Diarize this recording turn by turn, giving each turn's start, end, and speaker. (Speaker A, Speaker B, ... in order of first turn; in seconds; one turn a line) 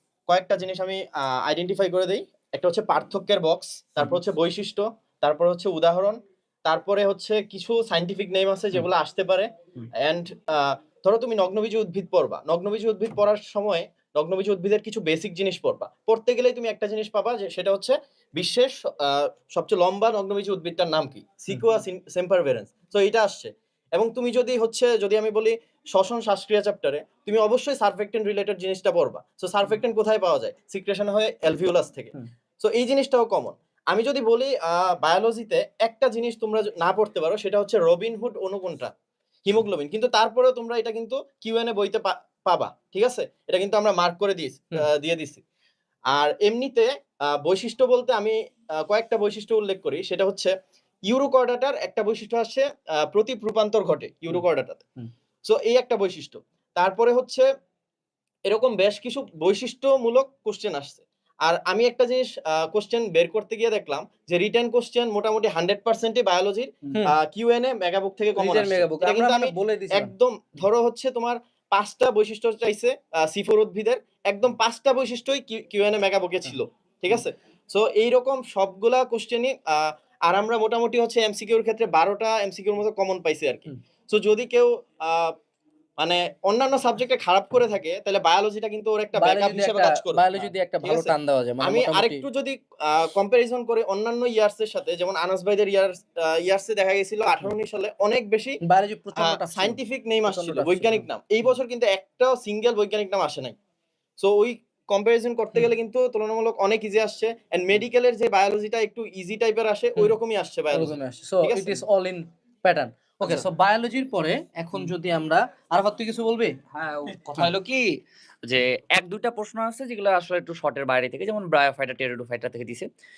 Speaker A: 0.3-38.9
Speaker A: 39.4-45.4
Speaker A: 46.1-46.9
Speaker A: 47.4-50.5
Speaker A: 51.0-54.8
Speaker A: 55.4-57.4
Speaker A: 58.4-85.3
Speaker B: 68.3-70.1
Speaker A: 86.0-98.6
Speaker B: 89.2-92.2
Speaker B: 98.6-101.0
Speaker A: 99.2-103.5
Speaker A: 104.2-111.8
Speaker B: 110.7-116.5
Speaker C: 116.7-122.9